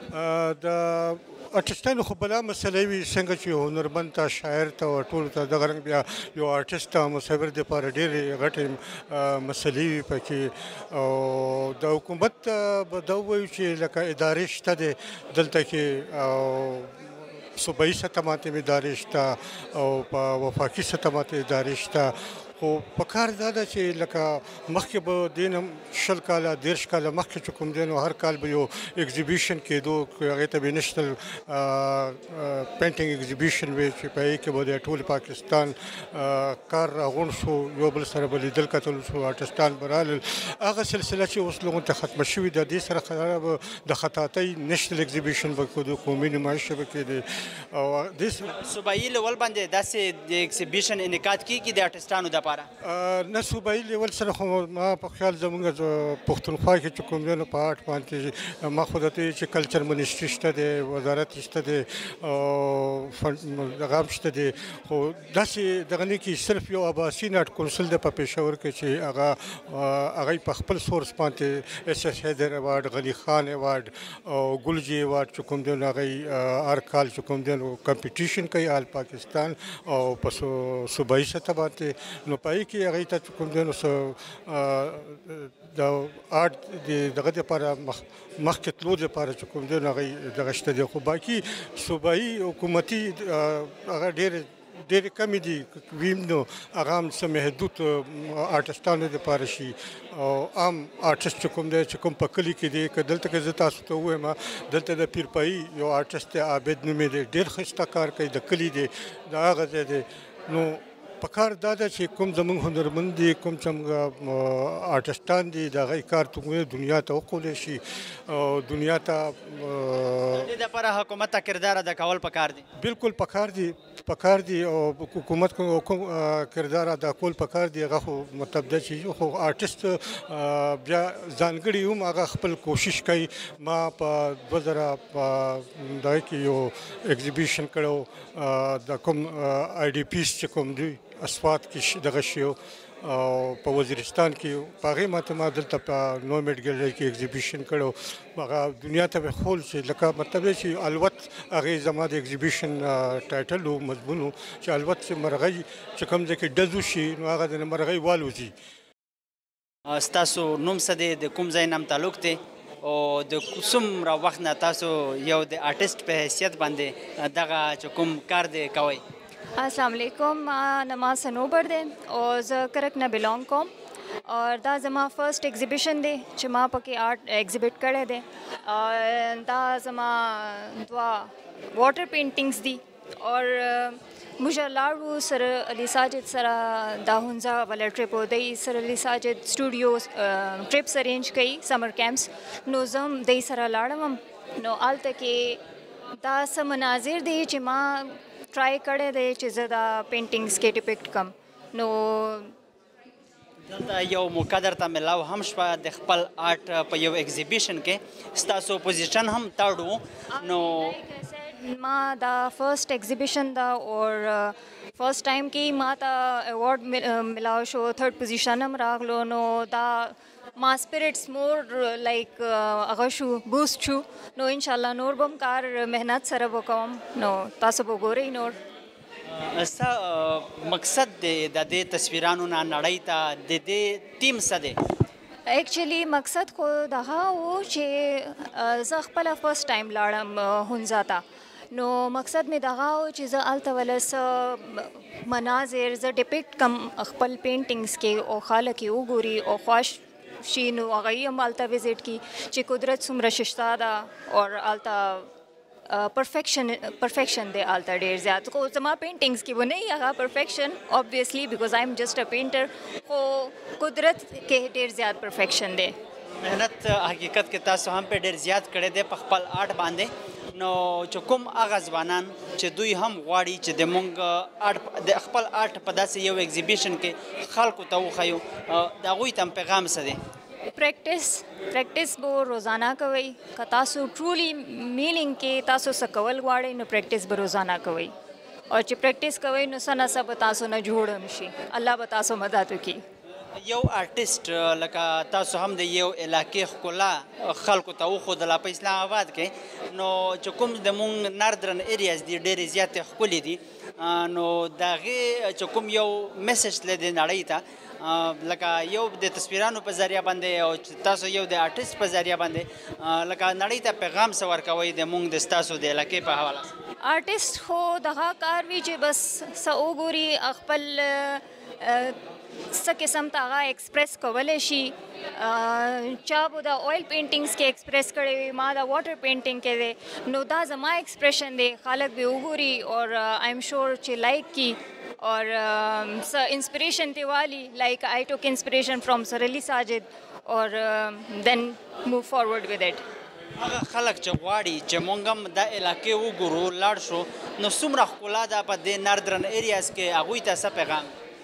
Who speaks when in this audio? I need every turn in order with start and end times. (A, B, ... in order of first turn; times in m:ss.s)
0:00.1-0:48.5 A
0:48.5-0:52.7 B
0:52.8-2:00.5 A
2:00.4-2:02.6 B
2:02.8-2:38.5 A
2:39.9-2:49.0 B
2:49.6-2:53.7 C
2:54.3-3:15.6 C
3:16.2-3:22.5 C
3:23.7-3:31.0 B
3:30.3-3:48.6 C
3:49.3-3:54.8 B
3:55.5-4:15.3 C
4:15.9-4:25.9 C
4:26.4-4:40.2 B
4:40.7-4:48.1 C
4:48.7-4:53.0 C
4:53.6-5:16.7 B
5:17.0-5:22.2 C
5:22.7-5:43.0 C
5:43.6-5:51.1 B